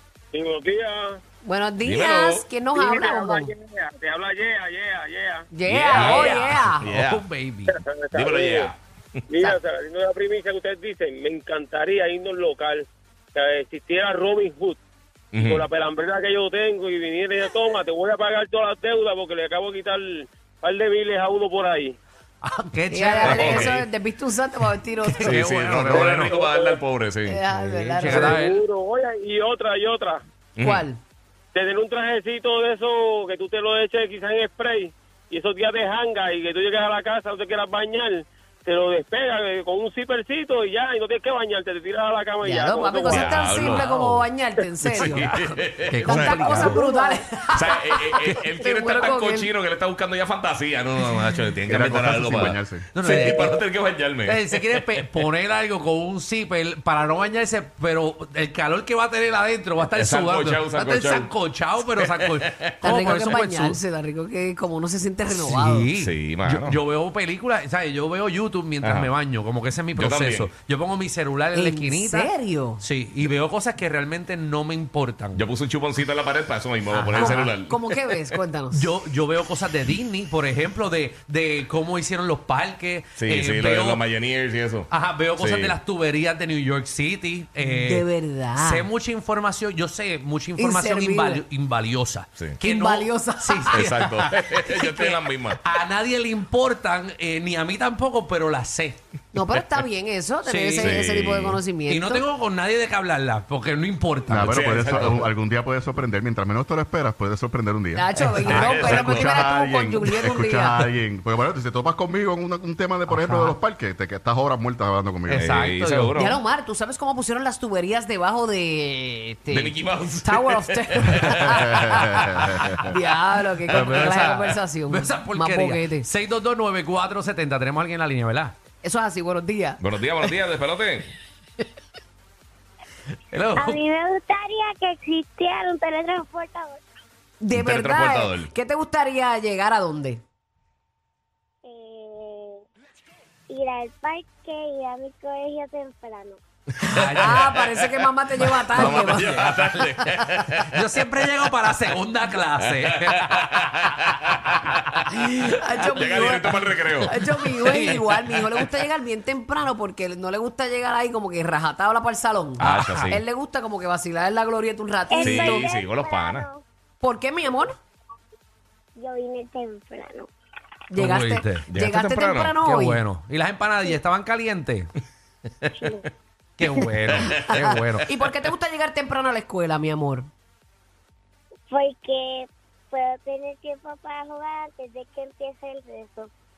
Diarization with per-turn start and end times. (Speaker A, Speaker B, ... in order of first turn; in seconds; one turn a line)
Speaker A: 0.3-1.2
Speaker B: 1.4-3.5
Speaker C: 1.8-2.5
Speaker A: 2.7-5.5
Speaker B: 5.5-6.8
Speaker C: 5.6-7.2
Speaker D: 5.9-7.8
Speaker A: 7.7-8.7
Speaker C: 8.1-9.4
Speaker A: 9.3-14.8
Speaker C: 15.3-15.6
Speaker A: 15.4-21.9
Speaker D: 22.4-23.8
Speaker B: 22.9-25.4
Speaker C: 23.2-23.8
Speaker D: 25.0-26.4
Speaker C: 25.2-27.4
Speaker A: 25.9-26.8
Speaker B: 27.2-28.4
Speaker D: 27.4-28.6
Speaker A: 28.1-30.2
Speaker C: 30.6-30.9
Speaker B: 30.6-31.0
Speaker A: 31.5-43.6
Speaker B: 42.4-49.5
Speaker C: 43.1-43.9
Speaker D: 43.6-44.2
Speaker C: 44.6-46.8
Speaker D: 44.9-45.3
Speaker D: 45.9-46.9
Speaker E: 46.7-47.2
Speaker C: 47.5-55.0
Speaker F: 51.6-52.8
Speaker D: 52.9-53.6
Speaker D: 54.2-63.8
Speaker C: 59.8-61.3
Speaker C: 62.0-63.3
Speaker B: 62.8-65.9
Speaker D: 65.3-75.5
Speaker C: 65.9-66.8
Speaker C: 68.8-69.1
Speaker C: 69.9-70.5
Speaker B: 71.5-72.8
Speaker C: 75.3-78.4
Speaker D: 76.9-77.5
Speaker B: 77.1-78.9
Speaker D: 78.7-84.0
Speaker C: 83.2-85.8
Speaker D: 84.9-94.7
Speaker B: 87.6-88.9
Speaker B: 90.6-91.4
Speaker B: 92.6-94.2
Speaker C: 93.7-95.6
Speaker B: 94.7-95.3
Speaker D: 95.6-99.0
Speaker B: 99.3-102.2
Speaker D: 100.4-101.0
Speaker C: 100.7-101.6
Speaker D: 101.9-104.6
Speaker F: 104.3-115.6
Speaker C: 104.4-105.3
Speaker B: 107.9-110.8
Speaker D: 108.2-109.3
Speaker C: 108.4-109.2
Speaker D: 113.1-113.5
Speaker D: 115.3-116.2
Speaker C: 115.3-116.4
Speaker B: 116.1-122.2
Speaker C: 119.5-122.3
Speaker F: 121.4-122.9
Speaker B: 122.7-126.1
Speaker C: 123.7-124.3
Speaker D: 123.7-128.6
Speaker B: 128.8-130.3
Speaker C: 129.8-131.1
Speaker D: 133.3-133.8
Speaker E: 133.5-136.8
Speaker B: 137.4-140.2
Speaker C: 137.5-138.5
Speaker E: 141.6-142.6
Speaker E: 143.5-146.4
Speaker B: 146.8-150.2
Speaker D: 146.9-147.7
Speaker C: 147.0-147.6
Speaker D: 148.4-149.6
Speaker C: 148.7-151.3
Speaker D: 150.6-153.8
Speaker C: 152.6-154.8
Speaker B: 155.1-165.7
Speaker C: 155.9-157.2
Speaker D: 157.0-158.6
Speaker C: 162.6-163.2
Speaker D: 162.6-163.2
Speaker E: 165.1-166.6
Speaker C: 165.2-166.5
Speaker B: 167.0-167.8
Speaker E: 168.9-170.3
Speaker B: 170.9-173.0
Speaker D: 170.9-171.7
Speaker C: 171.7-172.6
Speaker D: 172.6-174.9
Speaker E: 175.8-176.0
Speaker D: 176.6-178.1
Speaker C: 177.1-177.6
Speaker B: 177.5-180.3
Speaker E: 181.7-186.3